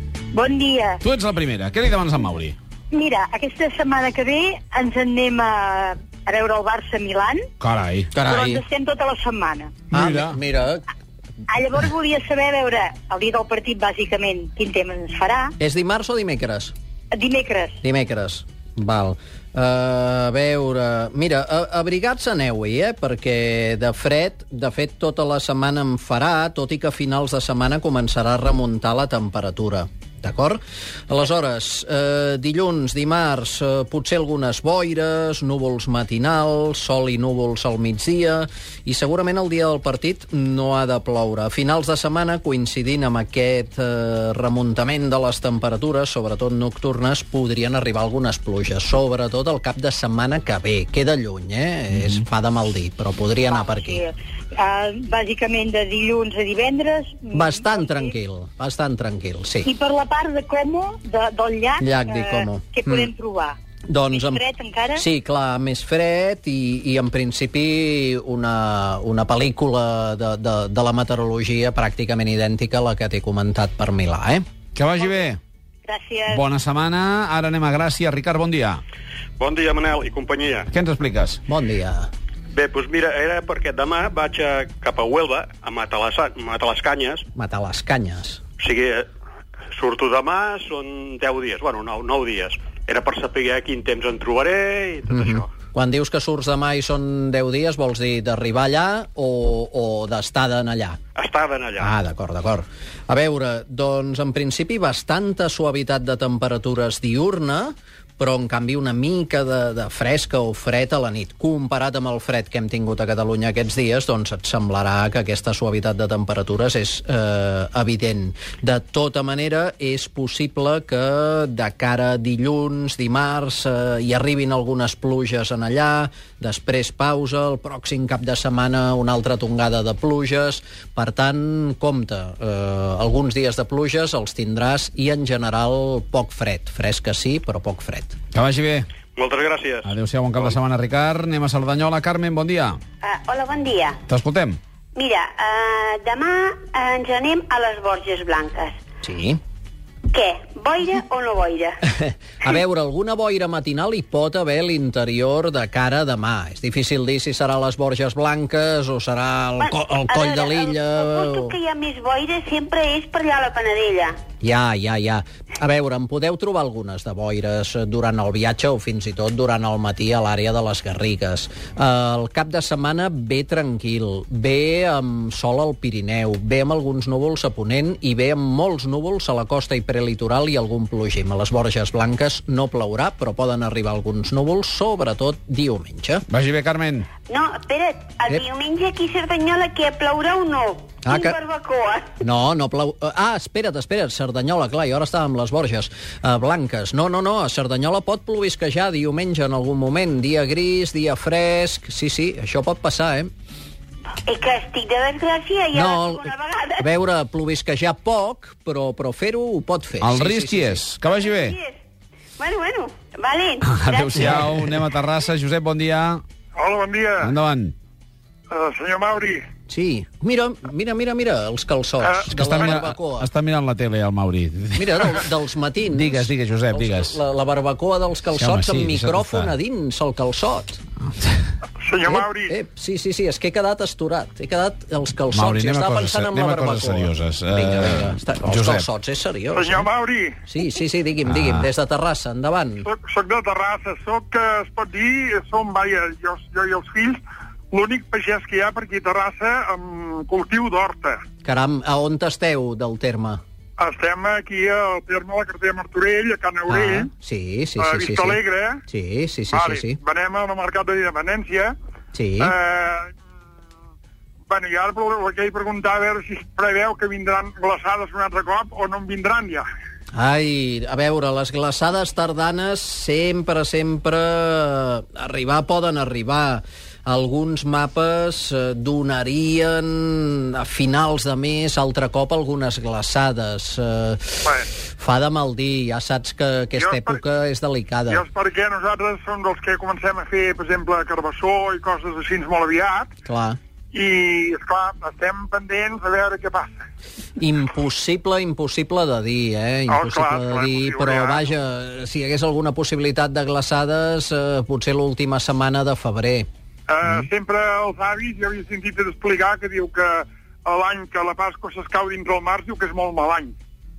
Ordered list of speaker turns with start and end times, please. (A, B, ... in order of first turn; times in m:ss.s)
0:00.3-0:01.0 A
0:01.0-0:02.6 B
0:02.9-0:07.4 A
0:07.6-0:08.1 B
0:08.1-0:08.6 C
0:08.2-0:09.7 A
0:09.9-0:10.8 C
0:09.9-0:10.3 B
0:11.5-0:15.5 A
0:15.6-0:16.7 C
0:17.1-0:17.8 A
0:17.8-0:54.0 C
0:53.5-0:58.1 A
0:57.3-0:59.7 C
0:59.6-1:03.6 A
1:01.8-1:03.1 C
1:03.9-1:04.4 C
1:04.1-1:05.0 A
1:05.0-1:14.4 C
1:14.7-1:15.4 B
1:15.8-1:16.4 A
1:16.3-1:18.8 B
1:19.4-1:20.6 D
1:20.7-1:21.4 B
1:21.5-1:22.1 C
1:22.5-1:27.1 D
1:27.3-1:28.4 C
1:28.6-1:29.0 D
1:29.7-1:35.3 D
1:35.1-1:41.0 C
1:41.2-1:41.8 D
1:41.8-2:18.1 C
2:18.3-2:18.9 B
2:19.2-2:19.8 D
2:19.8-2:22.8 B
2:23.0-2:24.0 E
2:24.1-2:24.6 B
2:24.9-2:28.8 E
2:29.0-2:29.4 C
2:30.1-2:31.8 E
2:31.9-2:41.6 C
2:39.6-2:44.2 E
2:44.4-3:06.2 C
3:06.3-3:07.1 B
3:07.2-3:12.1 E
3:11.0-3:11.4 C
3:12.2-3:23.3 C
3:24.2-3:26.8 E
3:25.7-3:30.9 C
3:30.0-3:31.6 B
3:31.0-3:31.8 E
3:32.4-3:34.6 E
3:33.6-3:36.2 B
3:36.5-3:37.3 F
3:37.2-3:37.7 B
3:38.5-3:39.4 F
3:39.7-3:43.3 C
3:42.3-3:45.0 B
3:44.8-3:50.8 C
3:45.9-3:47.1 B
3:48.4-3:49.5 B
3:51.8-3:52.5 F
3:52.1-3:59.9 C
3:55.3-3:58.8 B
3:59.5-4:00.4 F
4:00.5-4:02.8 C
4:01.4-4:01.6 B
4:02.8-4:11.2 F
4:11.4-4:13.4 C
4:13.8-4:17.1 F
4:16.7-4:20.0 C
4:17.8-4:18.8 F
4:19.5-4:21.7 F
4:22.1-4:22.5 C
4:22.4-4:23.1 F
4:24.5-4:29.6 F
4:30.1-4:48.2 C
4:46.8-4:47.2 F
4:48.1-4:53.1 F
4:53.2-4:53.6 C
4:53.9-4:56.8 F
4:57.4-5:06.4 C
4:59.9-5:01.4 F
5:06.9-5:13.5 F